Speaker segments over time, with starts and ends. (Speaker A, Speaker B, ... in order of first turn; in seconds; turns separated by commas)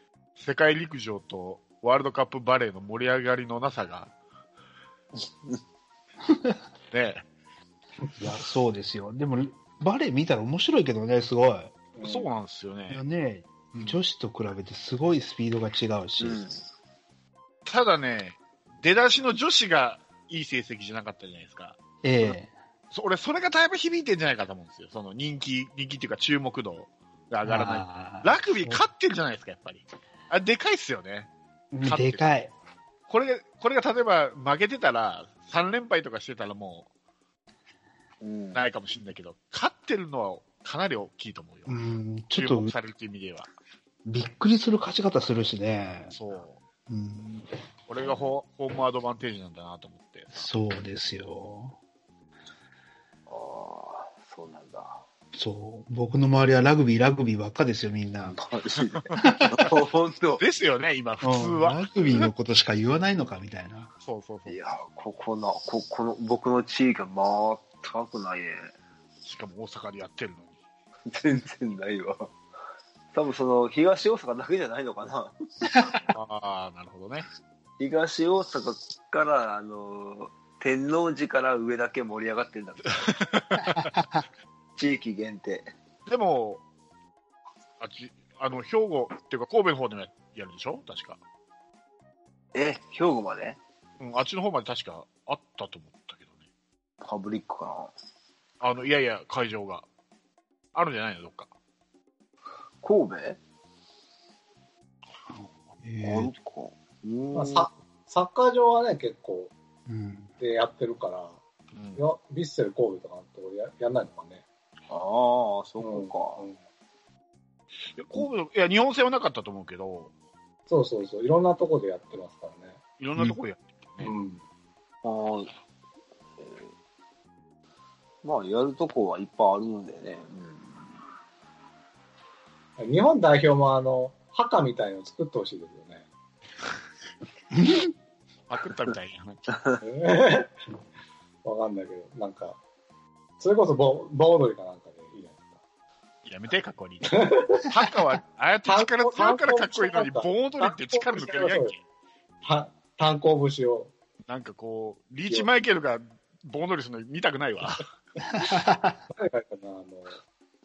Speaker A: 0.4-4.1, Speaker A: 6.9-7.2, Speaker B: 8.2-11.7, Speaker C: 12.0-12.3, Speaker A: 12.0-13.0, Speaker B: 12.9-16.4, Speaker D: 16.2-16.6, Speaker A: 17.7-21.8, Speaker B: 22.0-22.5, Speaker A: 22.9-31.3, Speaker B: 27.4-28.8, Speaker B: 31.7-32.5, Speaker A: 31.8-32.2, Speaker A: 33.1-36.9, Speaker D: 38.2-38.6, Speaker A: 38.5-41.8, Speaker B: 41.7-42.7, Speaker A: 42.4-43.5, Speaker B: 44.1-46.1, Speaker A: 46.1-46.6, Speaker B: 46.9-47.5, Speaker A: 47.9-50.5, Speaker B: 50.4-51.8, Speaker D: 53.3-55.0, Speaker B: 55.3-58.4, Speaker D: 58.2-60.4, Speaker B: 59.2-59.6, Speaker A: 60.4-62.3, Speaker B: 61.2-63.9, Speaker A: 64.0-64.6, Speaker D: 64.5-68.7, Speaker A: 69.2-70.5, Speaker D: 71.1-72.4, Speaker D: 73.1-75.8, Speaker B: 75.7-76.0, Speaker A: 76.1-77.3, Speaker D: 77.8-83.2, Speaker A: 83.1-83.9, Speaker B: 83.7-84.0, Speaker D: 84.8-85.7, Speaker A: 86.1-86.6, Speaker A: 87.8-91.2, Speaker D: 92.5-93.6, Speaker A: 94.0-96.3, Speaker D: 97.0-97.9, Speaker A: 98.6-99.8, Speaker A: 100.8-101.5, Speaker D: 102.8-103.4, Speaker B: 105.8-106.3, Speaker D: 106.0-107.7, Speaker C: 107.3-109.5, Speaker B: 109.9-110.3, Speaker C: 110.4-111.4, Speaker A: 111.7-112.0, Speaker C: 112.0-114.4, Speaker D: 114.9-116.4, Speaker C: 115.8-116.6, Speaker A: 118.0-120.1, Speaker C: 120.7-122.8, Speaker A: 123.0-124.1, Speaker C: 124.0-124.4, Speaker D: 125.0-125.5, Speaker D: 128.2-130.9, Speaker C: 132.8-136.1, Speaker B: 137.5-137.9, Speaker A: 138.5-139.4, Speaker C: 139.8-140.5, Speaker C: 141.4-142.6, Speaker C: 143.4-145.6, Speaker A: 146.2-151.8, Speaker C: 147.1-147.7, Speaker C: 148.7-151.7, Speaker C: 152.4-153.9, Speaker A: 154.3-157.8, Speaker B: 158.2-159.0, Speaker C: 159.1-160.2